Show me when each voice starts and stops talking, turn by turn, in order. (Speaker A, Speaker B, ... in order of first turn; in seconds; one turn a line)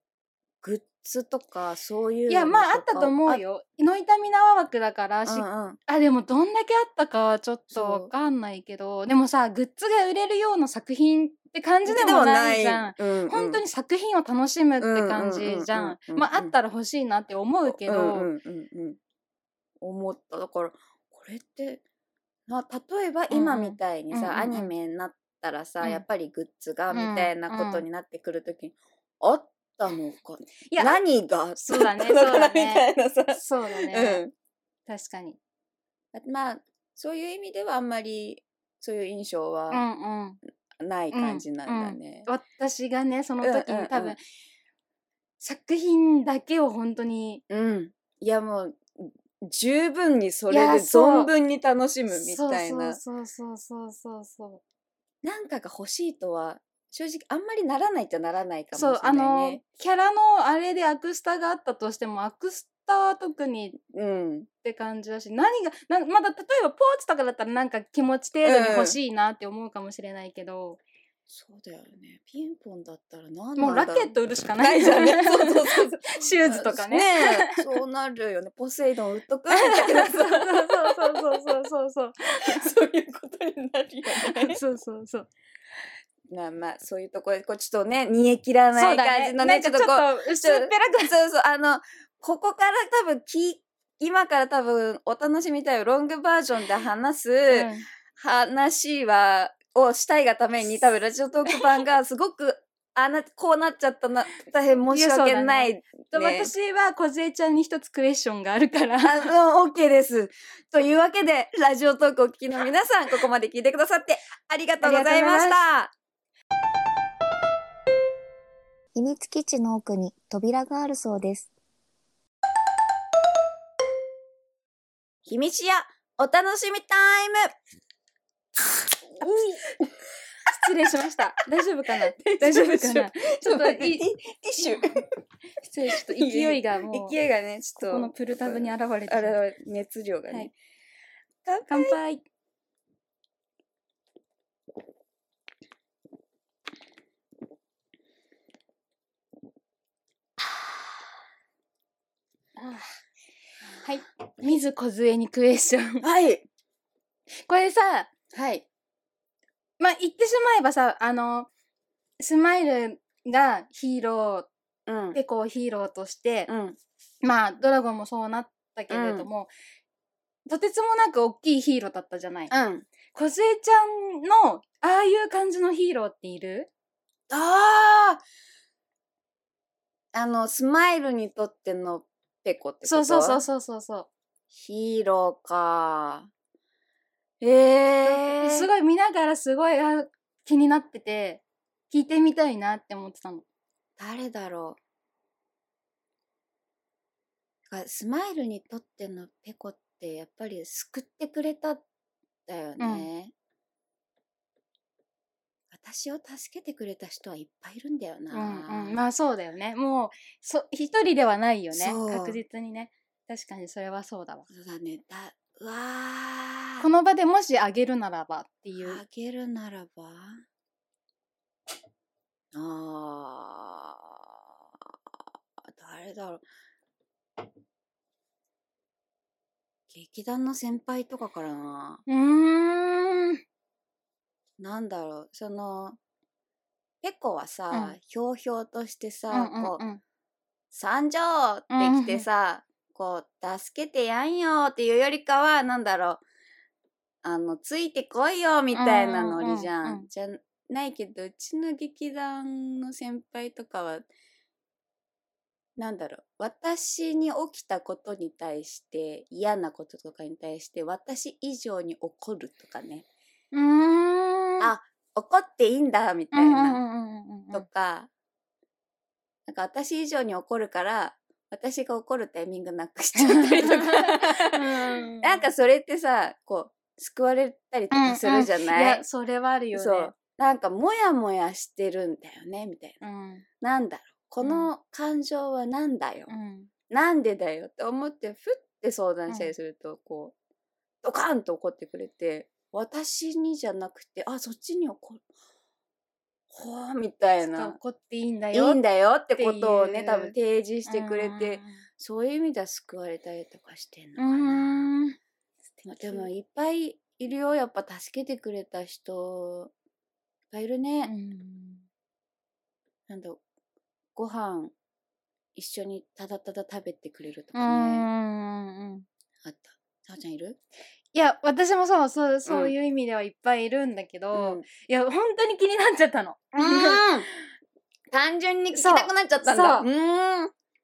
Speaker A: 0.6-3.4
Speaker B: 2.3-18.3
Speaker A: 5.2-5.8
Speaker A: 7.7-8.1
Speaker A: 11.9-13.6
Speaker A: 14.8-16.5
Speaker A: 17.7-19.0
Speaker A: 19.8-21.8
Speaker A: 22.5-34.3
Speaker B: 23.3-24.7
Speaker B: 26.9-27.8
Speaker B: 30.7-31.0
Speaker B: 31.6-34.2
Speaker B: 34.9-35.4
Speaker A: 36.1-39.9
Speaker B: 39.7-40.4
Speaker A: 40.8-42.3
Speaker B: 41.1-44.2
Speaker A: 43.4-44.2
Speaker B: 45.4-47.4
Speaker A: 47.5-53.0
Speaker B: 50.5-51.3
Speaker B: 52.1-54.6
Speaker A: 55.2-59.6
Speaker B: 58.7-63.8
Speaker A: 63.8-64.5
Speaker B: 64.6-70.8
Speaker A: 68.4-69.0
Speaker A: 71.3-81.5
Speaker B: 73.6-77.6
Speaker B: 79.5-82.7
Speaker A: 82.4-84.6
Speaker B: 84.1-85.3
Speaker A: 86.3-106.5
Speaker B: 88.8-91.1
Speaker B: 97.5-97.9
Speaker B: 104.9-109.3
Speaker A: 109.0-115.9
Speaker B: 114.8-115.6
Speaker C: 118.9-121.5
Speaker A: 125.3-127.5
Speaker A: 129.2-129.9
Speaker B: 129.2-129.6
Speaker B: 130.5-134.0
Speaker A: 132.2-135.0
Speaker B: 134.6-134.9
Speaker B: 135.6-137.2
Speaker A: 135.9-140.5
Speaker B: 137.8-139.4
Speaker A: 141.4-142.0
Speaker B: 141.7-142.2
Speaker B: 152.6-152.9
Speaker B: 153.8-156.1
Speaker A: 156.0-156.4
Speaker B: 157.5-158.1
Speaker A: 158.3-158.6
Speaker B: 159.8-161.5
Speaker B: 162.2-164.5
Speaker A: 164.9-165.2
Speaker B: 165.1-166.5
Speaker A: 166.5-166.8
Speaker B: 167.2-169.5
Speaker A: 168.9-169.3
Speaker B: 170.5-172.5
Speaker A: 172.5-172.9
Speaker B: 173.1-176.7
Speaker A: 177.3-178.2
Speaker A: 180.1-183.4
Speaker B: 182.8-184.1
Speaker A: 184.5-186.3
Speaker A: 187.4-188.7
Speaker B: 188.0-193.4
Speaker A: 194.0-194.8
Speaker A: 197.7-201.8
Speaker A: 202.5-203.3
Speaker B: 202.8-203.1
Speaker A: 205.7-209.0
Speaker B: 208.3-214.4
Speaker A: 211.7-212.4
Speaker A: 214.5-216.9
Speaker B: 216.8-219.0
Speaker A: 218.8-220.4
Speaker A: 222.5-226.4
Speaker A: 229.9-232.0
Speaker B: 232.1-233.4
Speaker A: 234.6-236.0
Speaker A: 237.0-239.8
Speaker B: 237.7-237.9
Speaker B: 239.3-240.0
Speaker A: 240.7-246.2
Speaker B: 241.7-242.3
Speaker A: 247.2-254.1
Speaker B: 248.7-250.1
Speaker A: 255.8-263.1
Speaker B: 263.5-264.7
Speaker A: 264.6-266.8
Speaker B: 266.3-267.7
Speaker A: 267.5-268.1
Speaker A: 269.5-274.6
Speaker B: 273.1-275.5
Speaker A: 275.2-279.0
Speaker B: 277.9-280.1
Speaker A: 279.7-283.0
Speaker B: 283.0-283.4
Speaker A: 283.6-286.3
Speaker B: 284.4-284.7
Speaker B: 286.3-286.7
Speaker A: 286.9-290.3
Speaker A: 291.0-295.2
Speaker A: 296.5-297.8
Speaker B: 297.4-298.8
Speaker A: 298.5-304.9
Speaker B: 299.4-300.3
Speaker B: 300.9-301.8
Speaker B: 304.2-305.2
Speaker A: 305.8-309.7
Speaker A: 310.5-311.1
Speaker B: 311.1-311.8
Speaker A: 313.1-313.4
Speaker A: 314.2-314.7
Speaker A: 315.6-318.1
Speaker B: 317.6-319.1
Speaker A: 319.4-320.6
Speaker B: 321.1-327.0
Speaker A: 322.4-322.7
Speaker A: 324.3-324.6
Speaker A: 326.6-327.3
Speaker A: 328.1-330.5
Speaker B: 328.7-329.9